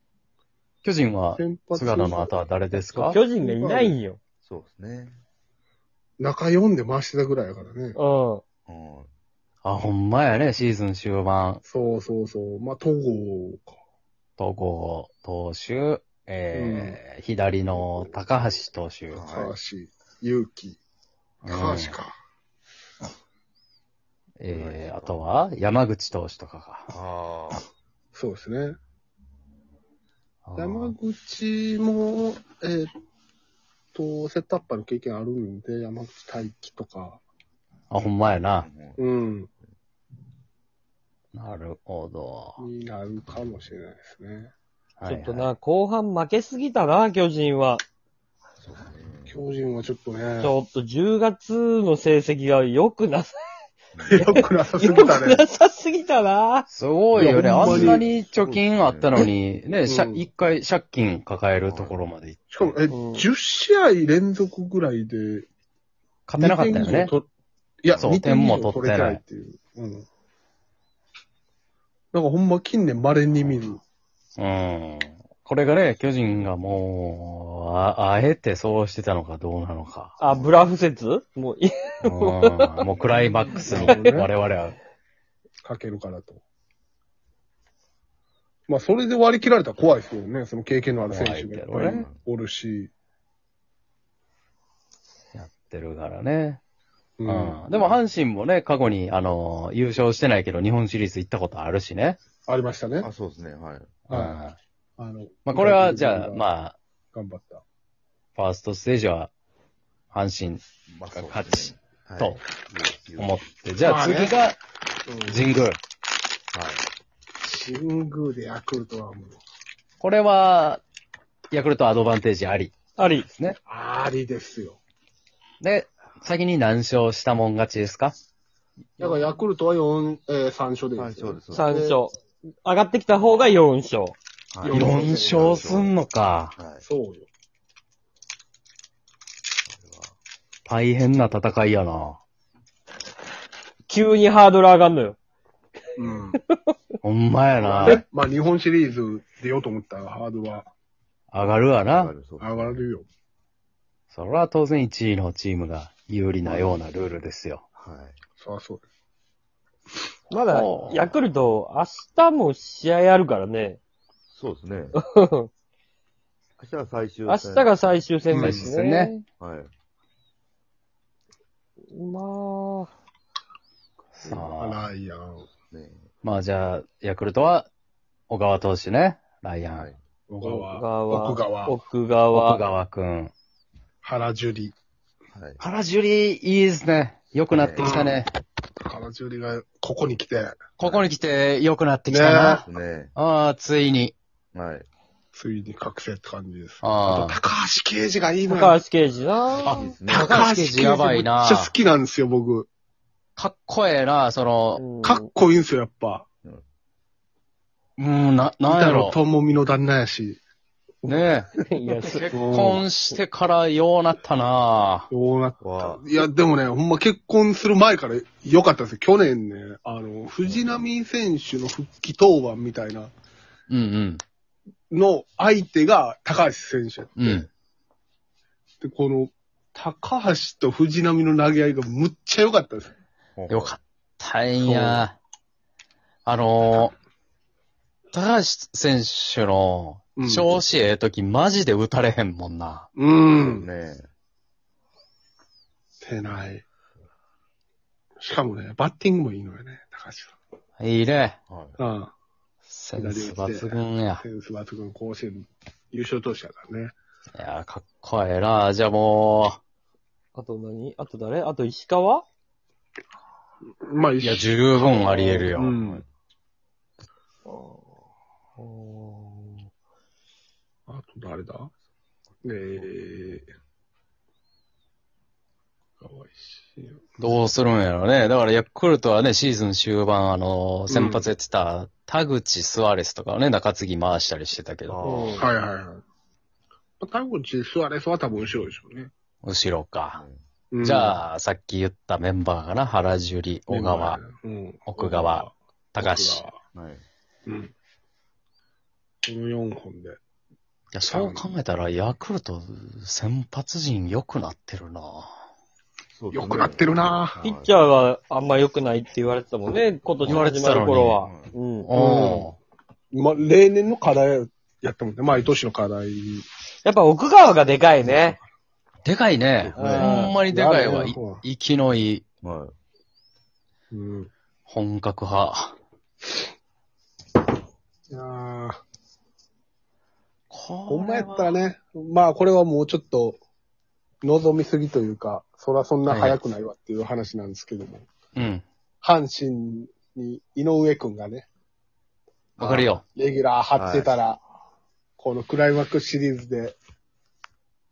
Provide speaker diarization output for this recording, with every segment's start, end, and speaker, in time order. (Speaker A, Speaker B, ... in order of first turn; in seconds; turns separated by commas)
Speaker A: 0.8-3.2, Speaker B: 1.4-2.4, Speaker B: 2.9-4.0, Speaker C: 3.0-4.2, Speaker D: 4.4-5.2, Speaker B: 6.2-8.0, Speaker C: 8.0-8.4, Speaker D: 8.7-9.1, Speaker A: 9.6-11.6, Speaker B: 11.6-13.7, Speaker A: 14.4-19.2, Speaker B: 16.5-17.0, Speaker B: 17.7-18.5, Speaker D: 19.1-19.5, Speaker B: 19.3-20.8, Speaker A: 21.4-21.9, Speaker B: 21.4-22.1, Speaker A: 24.4-26.9, Speaker D: 24.5-25.3, Speaker D: 26.9-27.6, Speaker B: 28.1-28.8, Speaker A: 30.4-30.9, Speaker B: 30.6-32.9, Speaker B: 33.9-37.2, Speaker A: 37.9-38.7, Speaker D: 38.6-39.0, Speaker B: 39.0-39.5, Speaker A: 41.3-42.6, Speaker B: 42.6-44.5, Speaker A: 45.0-45.5, Speaker C: 45.0-47.8, Speaker D: 48.6-49.4, Speaker B: 49.3-50.5, Speaker C: 50.4-53.4, Speaker D: 53.9-54.3, Speaker B: 54.1-55.4, Speaker C: 54.1-56.6, Speaker A: 56.7-62.7, Speaker B: 57.1-58.0, Speaker D: 57.6-59.2, Speaker B: 59.9-60.2, Speaker D: 61.7-62.0, Speaker B: 62.5-65.5, Speaker C: 62.9-63.2, Speaker A: 66.3-67.1, Speaker B: 66.4-67.2, Speaker B: 67.8-70.0, Speaker A: 68.0-69.2, Speaker B: 72.1-73.8, Speaker A: 74.4-80.2, Speaker C: 80.2-82.9, Speaker D: 80.3-80.5, Speaker A: 82.0-84.8, Speaker B: 83.5-84.3, Speaker B: 85.6-86.4, Speaker B: 88.7-92.9, Speaker A: 91.1-92.0, Speaker D: 91.9-92.2, Speaker A: 95.3-96.6, Speaker B: 97.2-97.9, Speaker A: 97.2-102.2, Speaker B: 102.5-103.1, Speaker D: 103.0-103.9, Speaker A: 104.1-104.6, Speaker B: 104.1-104.4, Speaker B: 105.0-106.4, Speaker A: 105.5-106.8, Speaker B: 107.1-107.6, Speaker A: 108.3-109.3, Speaker A: 110.1-112.4, Speaker D: 110.9-113.4, Speaker A: 113.2-114.5, Speaker B: 113.8-114.4, Speaker B: 115.1-115.5, Speaker A: 115.3-115.8, Speaker D: 116.5-116.8, Speaker B: 117.4-119.4, Speaker A: 120.0-120.8, Speaker A: 121.5-122.8, Speaker C: 123.0-123.3, Speaker A: 123.3-123.6, Speaker B: 123.7-124.8, Speaker A: 125.6-128.1, Speaker B: 129.0-132.0, Speaker D: 130.9-131.7, Speaker C: 131.5-134.1, Speaker D: 134.5-135.9, Speaker B: 134.6-135.7, Speaker A: 134.7-136.6, Speaker D: 136.6-136.8, Speaker B: 136.8-137.3, Speaker D: 139.7-140.1, Speaker A: 140.7-142.2, Speaker C: 143.9-145.2, Speaker B: 146.0-146.4, Speaker A: 147.0-148.0, Speaker B: 147.6-150.7, Speaker A: 151.3-152.1, Speaker D: 151.7-152.8, Speaker B: 152.4-153.0, Speaker A: 154.1-157.6, Speaker D: 156.4-156.8, Speaker D: 157.8-158.2, Speaker B: 158.4-158.8, Speaker C: 160.3-163.8, Speaker A: 160.5-161.1, Speaker D: 164.3-165.0, Speaker C: 164.9-165.5, Speaker D: 166.6-167.8, Speaker C: 167.3-169.2, Speaker B: 168.3-168.7, Speaker A: 168.3-169.1, Speaker D: 169.4-169.7, Speaker C: 171.9-172.9, Speaker A: 174.2-174.8, Speaker B: 174.2-175.5, Speaker D: 175.7-176.1, Speaker A: 176.2-177.7, Speaker A: 178.3-179.9, Speaker B: 180.3-181.8, Speaker C: 180.4-182.6, Speaker A: 182.3-183.3, Speaker B: 184.0-184.7, Speaker D: 185.3-185.6, Speaker A: 185.6-188.3, Speaker D: 187.5-188.0, Speaker B: 187.8-188.2, Speaker B: 188.8-190.6, Speaker A: 190.8-194.1, Speaker D: 190.8-191.1, Speaker B: 192.1-192.6, Speaker D: 192.6-193.1, Speaker D: 194.5-194.9, Speaker B: 195.3-198.8, Speaker A: 196.8-197.4, Speaker C: 198.5-199.8, Speaker A: 199.6-201.7, Speaker D: 199.7-200.5, Speaker B: 200.1-202.7, Speaker A: 203.3-204.8, Speaker C: 204.8-205.3, Speaker B: 205.0-206.2, Speaker A: 208.0-209.2, Speaker B: 208.7-210.4, Speaker B: 211.0-211.3, Speaker A: 211.1-211.5, Speaker C: 211.6-212.3, Speaker A: 212.0-215.1, Speaker B: 212.3-212.8, Speaker B: 215.1-223.1, Speaker D: 215.6-216.1, Speaker D: 220.5-220.8, Speaker A: 223.7-224.2, Speaker B: 224.9-227.5, Speaker A: 227.2-227.5, Speaker B: 228.8-232.9, Speaker D: 233.3-233.8, Speaker A: 233.5-235.2, Speaker B: 234.6-235.1, Speaker A: 236.2-236.9, Speaker A: 238.1-242.9, Speaker B: 240.2-240.6, Speaker B: 243.0-243.7, Speaker D: 243.4-244.1, Speaker B: 246.0-246.6, Speaker B: 248.2-250.3, Speaker A: 250.8-251.4, Speaker D: 251.5-251.8, Speaker B: 251.8-252.1, Speaker A: 252.6-254.2, Speaker B: 252.9-256.9, Speaker A: 257.3-259.6, Speaker C: 260.3-262.2, Speaker B: 263.8-266.0, Speaker A: 264.2-265.7, Speaker D: 265.7-266.1, Speaker C: 268.6-269.6, Speaker B: 270.9-271.7, Speaker B: 272.4-273.5, Speaker B: 276.0-277.0, Speaker A: 277.2-285.4, Speaker B: 280.9-281.3, Speaker D: 284.9-285.5, Speaker C: 285.0-285.4, Speaker B: 285.4-286.0, Speaker B: 287.0-289.1, Speaker A: 289.4-290.2, Speaker D: 290.1-290.4, Speaker B: 290.7-291.2, Speaker A: 290.8-294.2, Speaker B: 293.7-296.6, Speaker A: 294.9-296.4, Speaker D: 296.7-297.0, Speaker B: 297.4-297.7, Speaker B: 299.2-300.2, Speaker A: 300.9-305.3, Speaker B: 301.1-301.5, Speaker D: 306.1-307.8, Speaker B: 306.3-307.4, Speaker C: 307.4-311.9, Speaker A: 310.2-311.2, Speaker D: 311.2-311.5, Speaker A: 311.9-312.6, Speaker B: 311.9-312.5, Speaker B: 313.1-316.4, Speaker C: 316.8-318.4, Speaker B: 318.0-318.4, Speaker A: 319.0-322.2, Speaker D: 319.6-320.0, Speaker C: 319.8-320.3, Speaker B: 319.8-321.4, Speaker D: 322.4-322.7, Speaker B: 323.9-324.3, Speaker A: 324.7-325.8, Speaker B: 328.1-328.8, Speaker A: 330.5-331.6, Speaker B: 330.9-333.4, Speaker B: 334.2-338.0, Speaker A: 336.1-336.4, Speaker A: 338.3-338.6, Speaker B: 339.0-341.4, Speaker B: 342.6-344.4, Speaker A: 342.6-343.0, Speaker D: 343.8-344.1, Speaker B: 345.2-346.8